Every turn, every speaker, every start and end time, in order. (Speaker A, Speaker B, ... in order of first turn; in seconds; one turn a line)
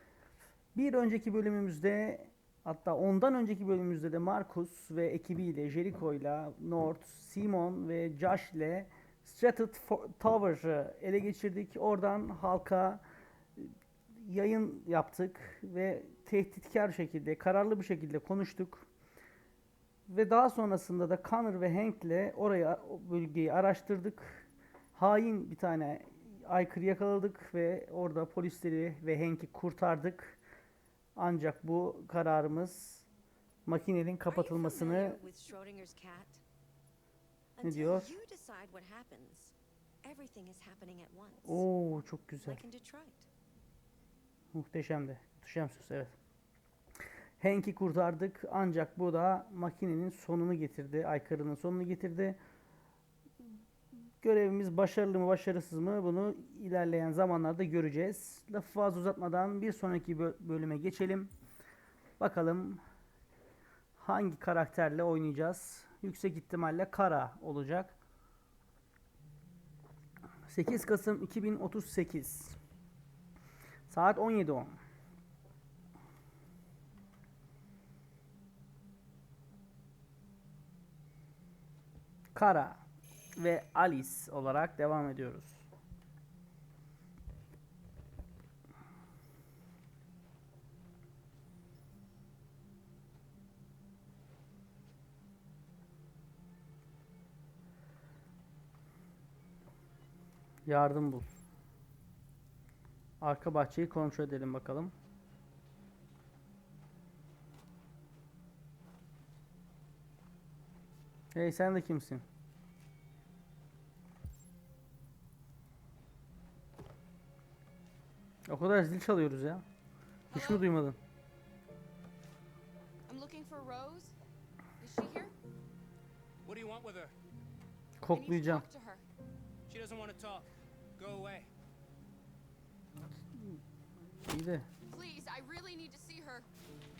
Speaker A: 0.8-13.0
Speaker A: 13.6-18.9
Speaker A: 20.1-30.4
Speaker A: 31.2-33.0
Speaker A: 33.7-35.2
Speaker B: 34.3-36.4
Speaker B: 37.6-41.7
Speaker A: 37.6-38.1
Speaker A: 41.5-42.6
Speaker B: 42.4-43.3
Speaker A: 44.5-46.1
Speaker A: 47.4-52.4
Speaker A: 54.2-61.3
Speaker A: 62.2-62.8
Speaker A: 64.0-68.0
Speaker A: 70.5-72.6
Speaker A: 73.9-74.8
Speaker A: 82.3-82.8
Speaker A: 83.4-85.7
Speaker A: 100.7-101.3
Speaker A: 103.2-104.9
Speaker A: 111.3-112.2
Speaker A: 118.5-119.7
Speaker C: 120.3-120.7
Speaker A: 120.3-121.0
Speaker C: 123.1-124.2
Speaker C: 124.8-125.3
Speaker D: 126.4-127.1
Speaker A: 128.0-128.7
Speaker C: 128.1-129.0
Speaker D: 129.7-131.5
Speaker A: 133.3-133.6
Speaker A: 134.2-134.7
Speaker C: 134.9-136.5